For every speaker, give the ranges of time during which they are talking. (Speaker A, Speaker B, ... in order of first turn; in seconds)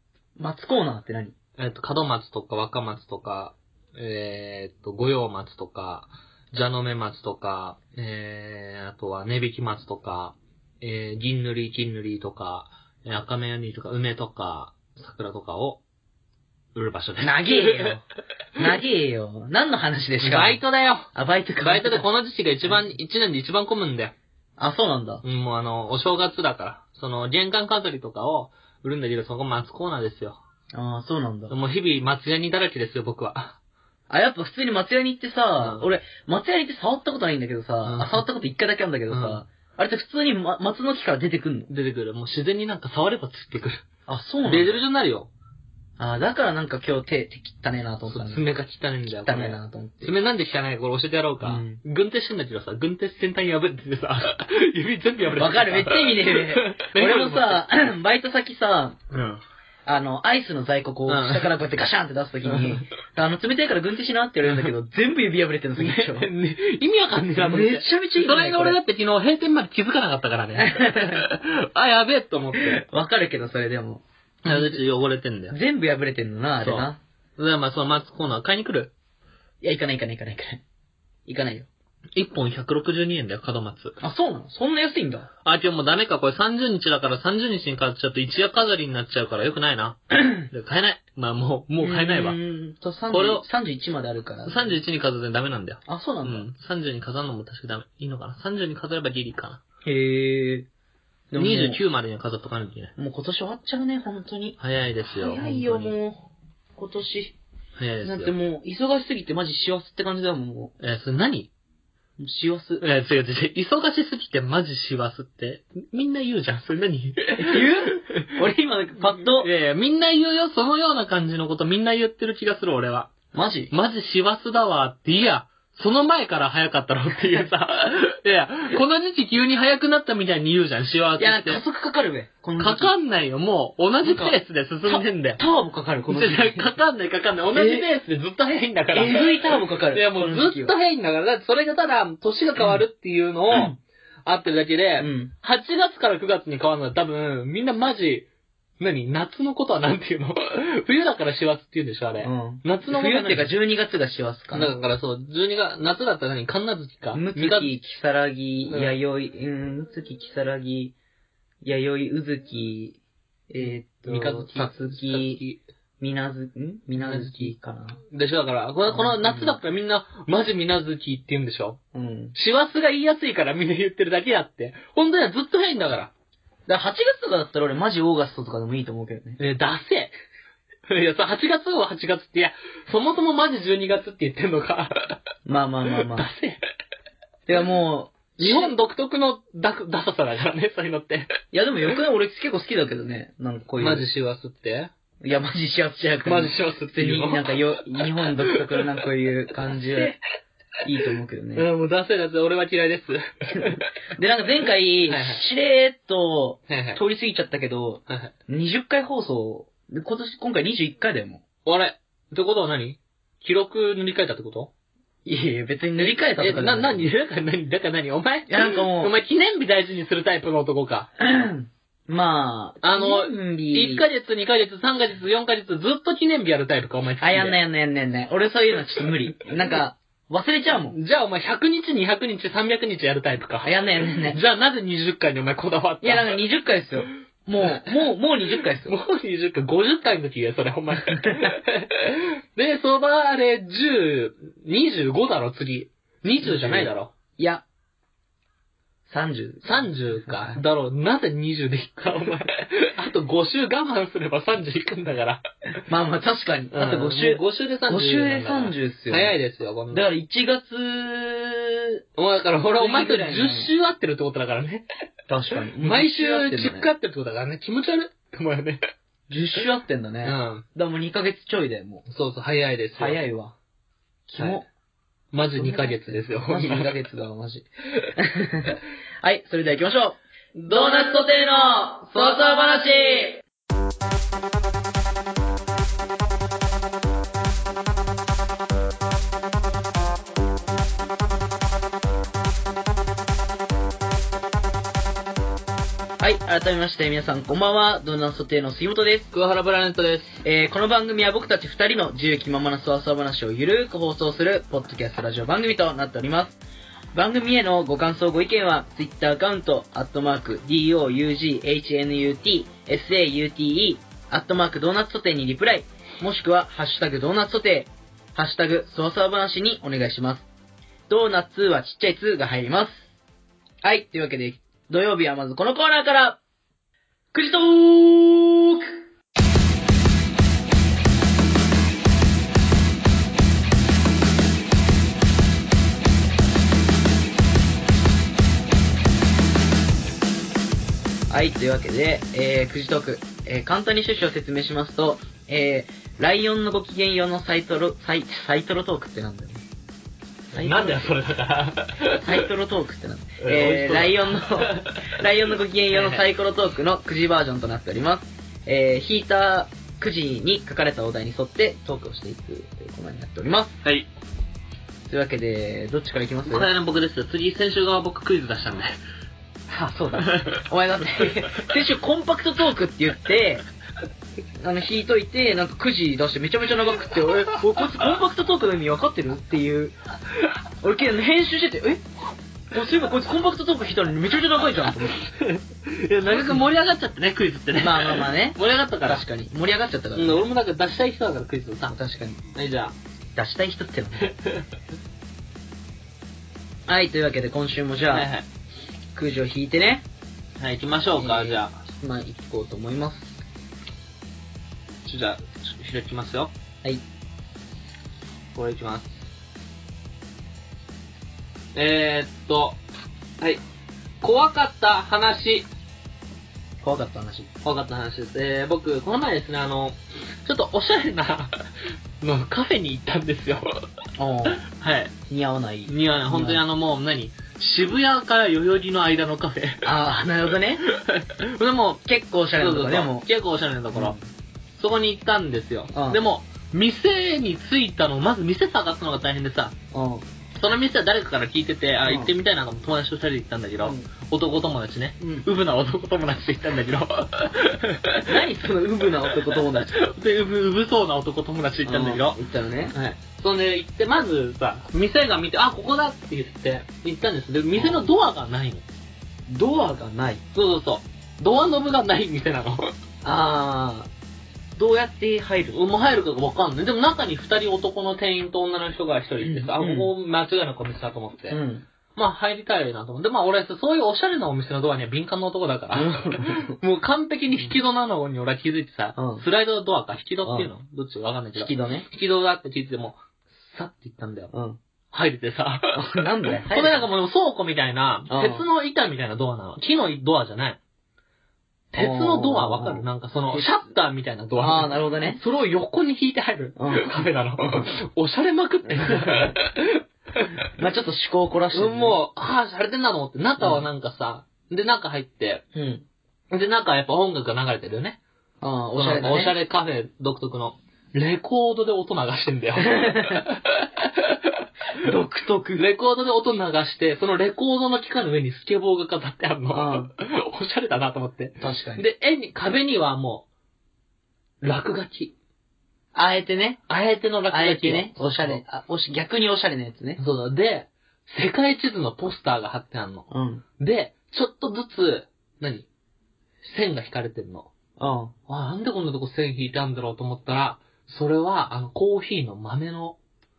Speaker A: 0.4-1.3, 17.2-18.0, 18.6-20.6, 21.1-22.1, 24.6-25.2, 30.7-31.6, 34.1-41.7, 44.1-44.8, 46.0-48.5, 49.2-50.1, 51.4-51.8, 55.4-59.0, 59.9-66.3, 67.4-68.8, 70.5-71.3, 72.5-74.8, 75.5-77.0, 79.6-80.6, 81.2-81.7, 84.0-85.3, 91.8-94.8, 95.9-96.5, 99.8-100.7, 101.3-101.8, 103.0-104.6, 105.1-106.2, 106.8-107.3, 108.0-110.7, 112.2-112.8, 117.3-119.5, 123.3-123.7, 131.2-132.9, 134.0-136.8, 137.5-137.9, 138.9-140.7, 143.5-143.8, 145.0-145.3, 152.2-154.7, 157.1-160.9, 161.6-163.0, 163.5-165.4, 166.0-168.0, 168.9-169.6, 171.9-172.3, 176.7-179.4, 185.4-186.3, 187.5-188.7, 191.5-194.1, 195.2-200.1, 200.8-201.7, 203.6-211.4, 215.2-217.1, 218.5-219.1, 221.2-224.0, 227.2-231.0, 233.6-234.4, 236.0-239.0, 241.3-241.5, 246.3-247.7, 249.1-250.6, 255.9-259.3, 259.9-262.0, 262.8-263.7, 265.3-266.9, 269.3-272.1, 273.0-273.6, 274.3-274.7, 275.6-283.4, 296.2-299.3, 300.4-306.6, 307.1-320.5, 321.1-323.1, 323.8-326.4, 327.3-328.9, 341.3-349.6, 350.5-351.1, 352.1-363.8, 365.1-366.7, 369.7-373.6, 374.6-379.9, 380.8-382.0, 382.7-385.2, 386.3-386.6, 387.8-390.5, 391.9-392.4, 393.3-394.3, 396.9-398.3, 399.1-400.0, 401.2-403.4, 416.8-417.5, 424.2-424.6, 425.3-426.6, 429.8-430.8, 432.0-433.2, 433.9-434.3, 435.9-436.2, 439.9-440.2, 442.0-442.3, 443.8-444.1, 445.2-445.4, 448.2-450.0, 451.9-452.9, 457.7-458.1, 459.5-460.4, 463.2-464.1, 464.8-465.8, 469.4-470.1, 471.5-471.9, 475.9-476.7, 479.1-479.4, 480.4-480.7, 481.6-482.1, 484.5-484.8, 485.9-487.1, 488.3-488.7, 492.0-493.7, 494.6-495.4, 496.8-497.9, 498.9-499.6, 500.7-502.2, 503.6-503.9, 505.7-506.0, 508.6-509.6, 512.8-513.5, 514.9-515.9, 519.7-520.1, 521.6-522.0, 526.1-526.8, 527.5-530.2, 533.3-533.6, 538.0-538.3
Speaker B: 1.6-15.8, 16.7-18.0, 20.2-24.1, 25.2-30.4, 31.5-33.6, 35.6-35.9, 37.8-38.2, 39.1-39.4, 41.7-43.8, 44.5-45.3, 48.1-57.6, 59.1-59.4, 61.1-61.5, 62.5-62.8, 65.8-72.8, 74.4-75.5, 76.6-78.9, 82.1-84.0, 85.4-92.4, 93.1-93.4, 94.4-99.6, 101.4-102.9, 104.6-105.9, 107.8-108.3, 110.8-111.5, 112.8-118.3, 119.1-123.1, 123.7-131.6, 132.6-135.4, 136.1-143.7, 144.2-148.2, 148.8-153.5, 154.5-157.7, 158.7-158.9, 164.1-165.6, 167.0-167.5, 168.1-171.8, 172.3-176.1, 179.4-180.1, 180.9-185.2, 185.9-186.6, 188.4-191.3, 193.8-194.9, 196.2-198.8, 199.7-200.2, 201.5-203.9, 205.1-205.4, 206.7-207.0, 208.1-208.3, 211.6-214.7, 216.0-221.1, 222.8-227.6, 230.9-236.3, 237.6-237.9, 238.8-247.1, 249.6-255.5, 256.7-260.1, 262.1-264.9, 265.8-268.9, 270.2-270.6, 272.1-273.2, 275.3-276.9, 280.6-281.0, 299.3-300.4, 350.6-352.5, 353.4-355.2, 355.9-356.2, 366.4-368.9, 385.2-389.2, 390.1-391.9, 392.5-392.9, 394.2-394.6, 398.1-398.5, 400.6-401.8, 405.0-406.5, 408.5-409.2, 411.7-412.8, 414.2-415.7, 417.6-421.6, 422.2-423.7, 424.6-425.1, 425.9-429.9, 430.9-432.0, 432.6-434.1, 434.8-439.7, 440.5-448.3, 449.3-452.4, 452.9-458.8, 460.5-462.9, 465.7-471.6, 472.1-484.5, 485.1-486.0, 486.6-490.8, 491.9-500.6, 501.7-505.6, 506.5-508.2, 508.9-514.6, 515.7-523.5, 524.6-525.3, 526.9-528.6, 530.2-533.3, 533.8-535.9, 536.6-537.7, 538.5-543.2